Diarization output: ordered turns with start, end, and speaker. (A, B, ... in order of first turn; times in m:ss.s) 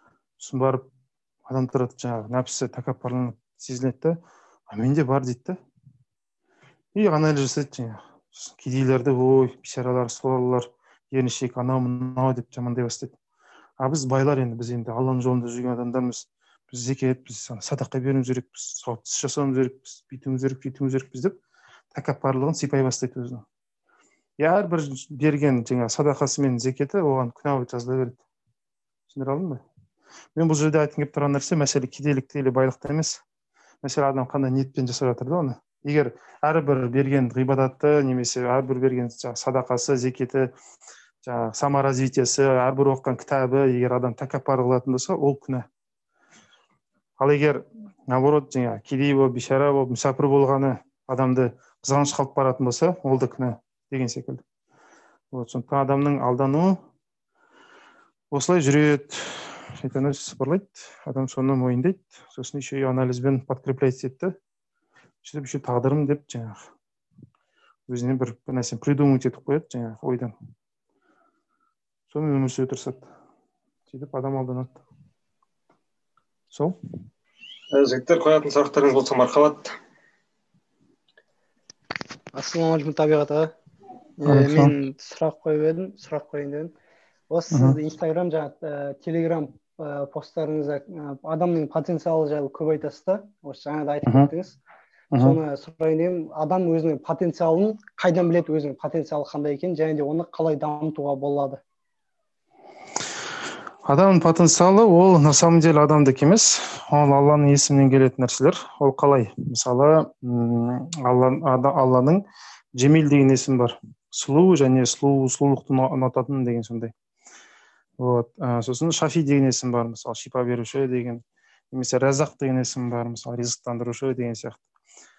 0:00.4-0:00.8 A
0:01.5-0:04.2 A
0:04.7-0:05.6 A
0:06.9-0:13.2 A
0:13.8-0:21.4 A
0:21.9-0:23.4 A
0:24.4-0:28.2 A
0:29.1-0:29.6 A
0:30.4-0:33.2 A
0:33.8-0:40.5 A
0:41.2-0:45.7 A
0:47.2-0:54.4 A
0:55.3-0:56.8 A
0:58.3-1:04.4 A
1:05.2-1:06.6 A
1:07.9-1:10.3 A
1:12.1-1:13.0 A
1:13.9-1:14.8 A
1:16.5-1:16.8 A
1:17.7-1:19.8 B
1:22.3-1:23.5 C
1:24.2-1:26.7 C
1:24.2-1:24.7 A
1:27.3-1:34.6 C
1:27.5-1:27.8 A
1:34.0-1:34.3 A
1:35.1-1:35.4 A
1:35.2-1:41.6 C
1:43.9-1:52.2 A
1:52.8-1:56.9 A
1:58.0-2:04.6 A